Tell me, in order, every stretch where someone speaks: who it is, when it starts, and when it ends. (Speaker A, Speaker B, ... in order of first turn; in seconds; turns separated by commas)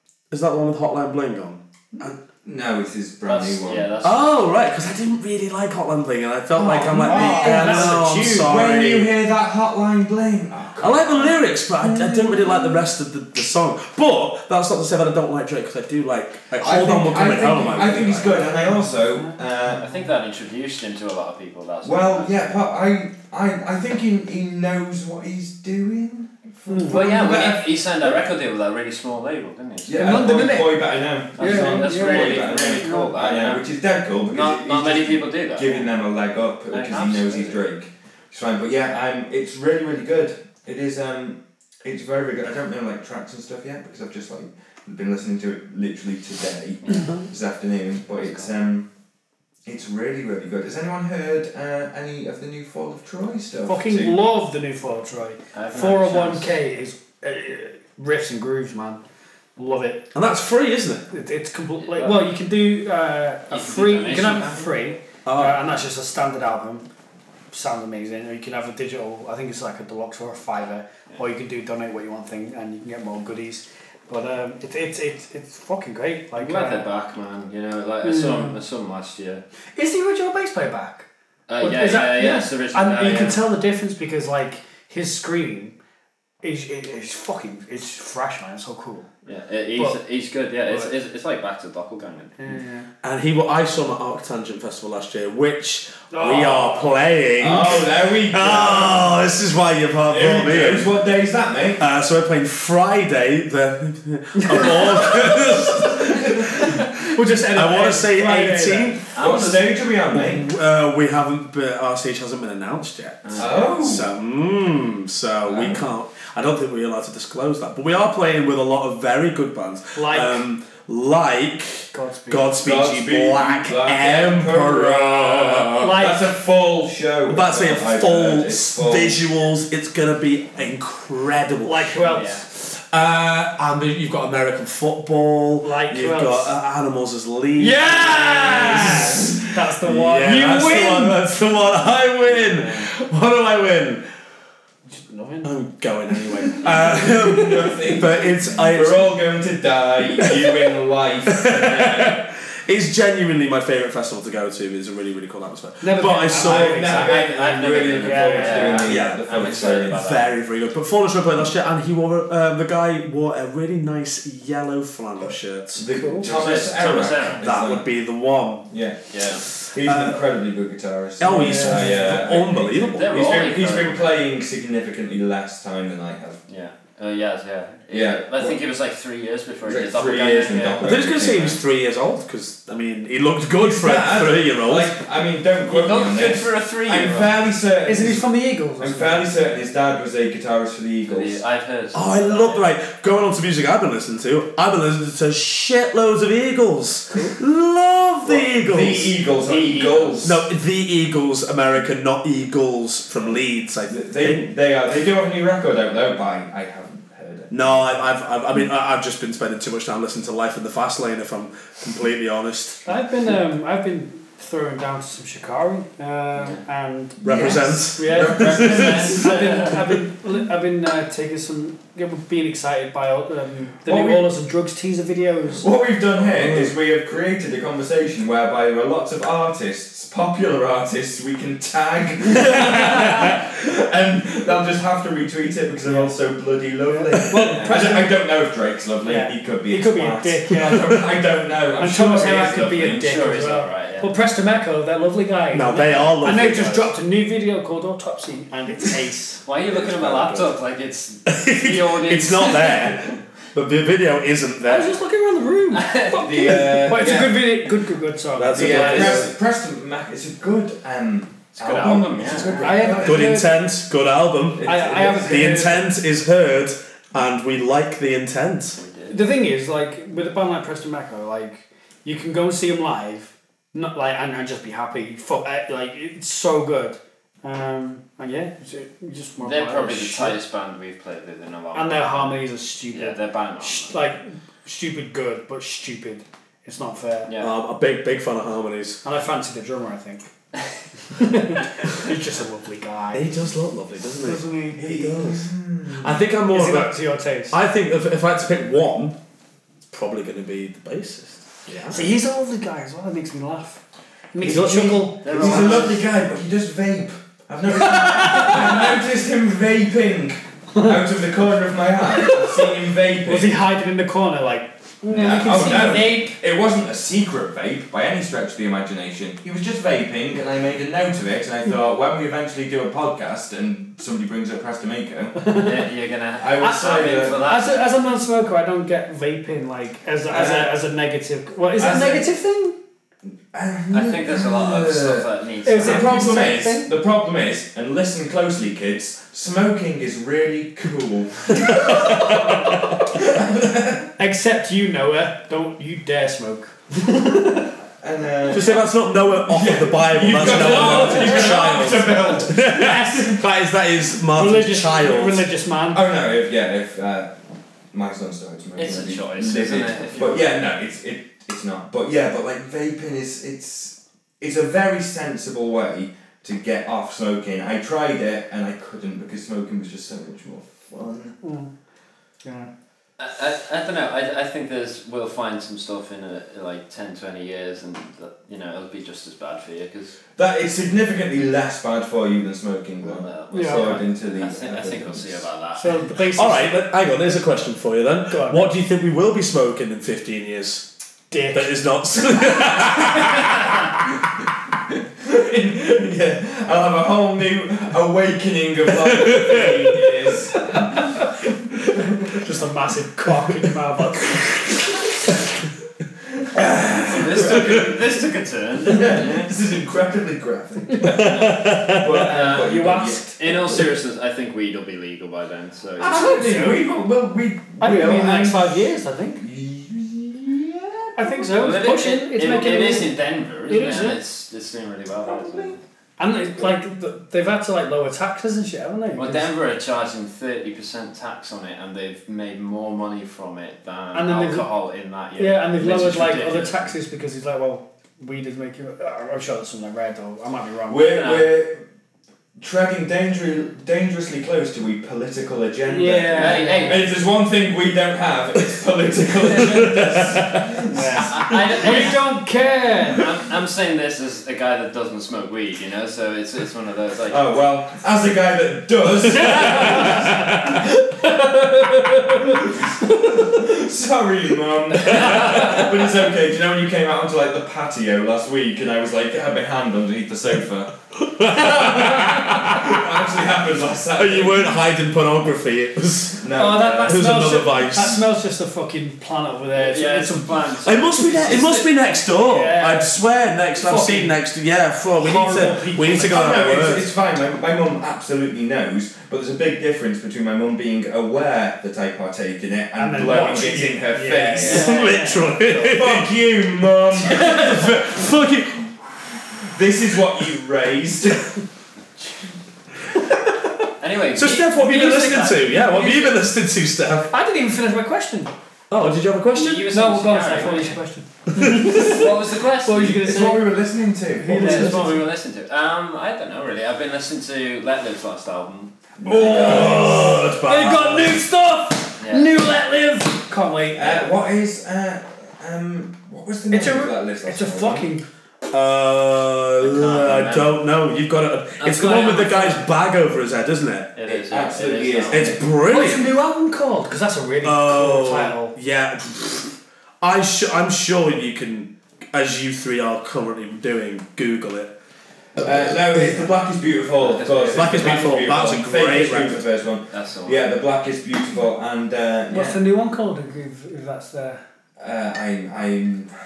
Speaker A: 0.3-2.1, Speaker B: 2.0-3.9, Speaker C: 3.3-4.3, Speaker A: 4.0-9.1, Speaker B: 6.5-11.4, Speaker D: 6.9-8.7, Speaker A: 10.8-18.4, Speaker B: 11.9-12.7, Speaker B: 16.6-19.9, Speaker D: 18.2-19.4, Speaker C: 19.7-22.6, Speaker B: 21.8-28.3, Speaker D: 26.7-27.1, Speaker C: 26.9-30.4, Speaker B: 29.9-48.9, Speaker D: 29.9-33.2, Speaker C: 31.4-33.7, Speaker C: 34.3-35.9, Speaker C: 36.7-37.6, Speaker C: 46.9-47.1, Speaker C: 48.1-48.5, Speaker B: 49.6-54.2, Speaker D: 53.6-59.0, Speaker C: 55.5-56.5, Speaker D: 59.6-60.1, Speaker A: 60.1-61.1, Speaker D: 61.1-66.9, Speaker C: 61.8-62.3, Speaker C: 63.5-64.9, Speaker A: 65.2-65.6, Speaker D: 67.5-76.9, Speaker C: 76.4-79.4, Speaker D: 78.0-78.6, Speaker D: 79.8-81.1, Speaker C: 81.5-83.4, Speaker D: 81.6-85.8, Speaker D: 86.4-89.1, Speaker C: 89.3-92.5, Speaker D: 90.7-90.9, Speaker D: 92.4-92.9, Speaker A: 93.0-100.9, Speaker D: 96.1-97.0, Speaker B: 97.4-99.2, Speaker B: 100.1-101.8, Speaker A: 101.8-109.1, Speaker D: 104.4-105.3, Speaker D: 107.1-109.0, Speaker C: 109.1-109.8, Speaker B: 109.2-110.5, Speaker A: 110.1-125.9, Speaker C: 113.2-114.0, Speaker B: 113.4-114.1, Speaker B: 115.4-115.8, Speaker D: 120.0-120.4, Speaker D: 121.9-122.5, Speaker B: 122.6-129.2, Speaker D: 125.8-126.3, Speaker A: 127.3-132.0, Speaker D: 131.6-132.4, Speaker C: 132.1-132.4, Speaker A: 132.5-144.1, Speaker D: 135.6-136.5, Speaker D: 137.6-141.2, Speaker C: 142.2-142.9, Speaker D: 144.9-145.5, Speaker A: 145.4-149.1, Speaker B: 146.6-152.2, Speaker A: 150.2-150.6, Speaker A: 151.3-156.9, Speaker D: 155.8-158.9, Speaker B: 156.3-160.0, Speaker C: 156.8-160.3, Speaker A: 158.8-165.9, Speaker B: 165.8-167.9, Speaker D: 165.9-166.3, Speaker C: 166.2-167.5, Speaker A: 167.4-168.7, Speaker B: 168.7-176.4, Speaker C: 169.1-169.4, Speaker A: 169.8-170.2, Speaker A: 171.2-173.5, Speaker D: 171.2-172.1, Speaker C: 172.9-174.2, Speaker C: 176.5-181.0, Speaker B: 177.9-178.6, Speaker B: 179.7-181.6, Speaker A: 180.8-184.9, Speaker B: 183.6-188.2, Speaker C: 185.7-187.4, Speaker D: 187.8-189.3, Speaker B: 188.8-191.4, Speaker C: 191.1-192.7, Speaker A: 191.9-199.2, Speaker B: 198.2-200.4, Speaker C: 199.4-200.3, Speaker A: 200.2-204.5, Speaker B: 203.9-208.0, Speaker A: 207.5-212.9, Speaker D: 212.9-225.7, Speaker A: 217.2-219.2, Speaker B: 217.2-219.2, Speaker C: 218.4-219.8, Speaker B: 223.9-224.3, Speaker B: 225.6-243.1, Speaker A: 226.2-226.8, Speaker D: 235.8-236.1, Speaker D: 236.8-238.1, Speaker C: 237.5-237.8, Speaker D: 239.1-240.9, Speaker D: 241.8-249.4, Speaker C: 242.9-244.1, Speaker A: 245.5-246.9, Speaker C: 249.5-252.9, Speaker B: 249.7-250.5, Speaker A: 251.3-255.0, Speaker D: 254.6-259.3, Speaker C: 255.7-256.6, Speaker B: 256.2-257.4, Speaker A: 258.4-259.3, Speaker B: 258.5-263.4, Speaker C: 261.6-262.8, Speaker D: 262.6-263.6, Speaker A: 263.0-268.8, Speaker B: 264.5-265.8, Speaker D: 264.6-265.9, Speaker C: 268.8-269.2, Speaker D: 269.1-280.4, Speaker C: 279.4-284.0, Speaker D: 281.7-287.3, Speaker C: 287.3-287.5, Speaker A: 287.4-289.0, Speaker D: 289.0-290.3, Speaker D: 291.1-293.4, Speaker A: 293.1-297.0, Speaker D: 294.2-295.2, Speaker B: 294.9-296.2, Speaker D: 296.5-297.6, Speaker A: 297.5-299.2, Speaker A: 299.9-302.0, Speaker D: 301.9-303.8, Speaker D: 304.3-306.0, Speaker B: 304.4-313.6, Speaker C: 305.2-306.0, Speaker D: 307.9-308.9, Speaker D: 312.2-312.7, Speaker D: 313.2-316.2, Speaker B: 315.1-325.4, Speaker D: 325.4-325.8, Speaker C: 325.6-327.9, Speaker B: 326.4-327.6, Speaker D: 326.6-332.8, Speaker B: 330.3-330.8, Speaker B: 331.8-332.3, Speaker B: 333.5-344.1, Speaker C: 333.9-336.6, Speaker D: 335.6-336.9, Speaker A: 341.6-342.8, Speaker D: 344.2-347.7, Speaker B: 348.0-348.9, Speaker A: 348.5-355.5, Speaker B: 349.5-352.7, Speaker C: 350.5-351.6, Speaker D: 350.8-351.4, Speaker D: 352.6-353.4, Speaker D: 354.3-356.0, Speaker B: 355.9-357.4, Speaker B: 357.9-371.4, Speaker C: 358.8-360.6, Speaker D: 371.4-371.7, Speaker D: 372.4-372.7, Speaker C: 373.2-380.2, Speaker B: 380.4-385.5, Speaker C: 383.0-386.1, Speaker D: 383.5-384.0, Speaker D: 385.8-386.8, Speaker A: 386.3-390.9, Speaker D: 388.3-388.7, Speaker D: 391.3-391.8, Speaker A: 391.5-393.9, Speaker B: 395.2-401.3, Speaker A: 399.2-399.7, Speaker B: 401.8-402.4, Speaker D: 402.4-404.8, Speaker B: 406.4-408.2, Speaker C: 407.1-409.5, Speaker B: 408.8-414.0, Speaker D: 411.0-411.2, Speaker A: 411.0-412.3, Speaker D: 412.1-413.4, Speaker C: 412.2-412.7, Speaker C: 413.4-416.4, Speaker B: 416.0-418.7, Speaker D: 416.1-416.8, Speaker D: 417.8-419.4, Speaker B: 419.4-421.5, Speaker D: 421.2-424.2, Speaker C: 421.5-425.8, Speaker B: 425.2-425.8, Speaker D: 426.2-429.5, Speaker C: 429.2-436.9, Speaker D: 434.1-434.7, Speaker D: 435.4-441.1, Speaker B: 440.9-441.8, Speaker C: 441.1-441.5, Speaker B: 442.6-451.3, Speaker D: 445.9-447.0, Speaker C: 446.3-447.1, Speaker A: 449.8-450.4, Speaker D: 450.9-453.3, Speaker C: 451.2-452.2, Speaker C: 453.1-457.5, Speaker B: 457.3-461.4, Speaker D: 459.6-460.3, Speaker D: 461.6-462.4, Speaker B: 462.3-470.9, Speaker A: 471.2-473.2, Speaker B: 471.5-474.8, Speaker A: 474.1-478.2, Speaker B: 476.4-477.4, Speaker D: 476.6-480.7, Speaker C: 479.7-481.9, Speaker A: 480.8-487.1, Speaker D: 482.4-483.1, Speaker D: 483.8-484.4, Speaker D: 485.2-486.7, Speaker B: 486.2-495.0, Speaker D: 492.9-495.9, Speaker A: 494.6-496.3, Speaker C: 494.6-495.0, Speaker B: 495.9-498.1, Speaker A: 497.2-499.0, Speaker B: 499.7-501.6, Speaker C: 504.0-506.3, Speaker A: 504.3-507.3, Speaker D: 507.3-508.5, Speaker A: 508.9-509.9, Speaker C: 509.5-511.0, Speaker D: 509.9-513.7, Speaker A: 511.6-512.0, Speaker C: 511.8-513.3, Speaker B: 513.0-515.1, Speaker D: 514.4-515.3, Speaker C: 514.5-519.8, Speaker B: 519.2-520.2, Speaker D: 519.2-524.2, Speaker A: 519.4-521.4, Speaker C: 522.2-522.5, Speaker B: 524.0-528.1, Speaker D: 526.7-528.2, Speaker A: 528.7-534.1, Speaker C: 529.8-530.8, Speaker C: 531.8-532.9, Speaker C: 534.2-535.6, Speaker B: 534.3-535.6, Speaker A: 535.3-536.3, Speaker D: 535.9-538.8, Speaker A: 537.6-544.9, Speaker A: 545.5-546.5, Speaker B: 545.6-552.8, Speaker C: 547.2-548.5, Speaker A: 547.7-549.6, Speaker C: 550.1-550.6, Speaker D: 552.5-554.6, Speaker B: 555.0-556.3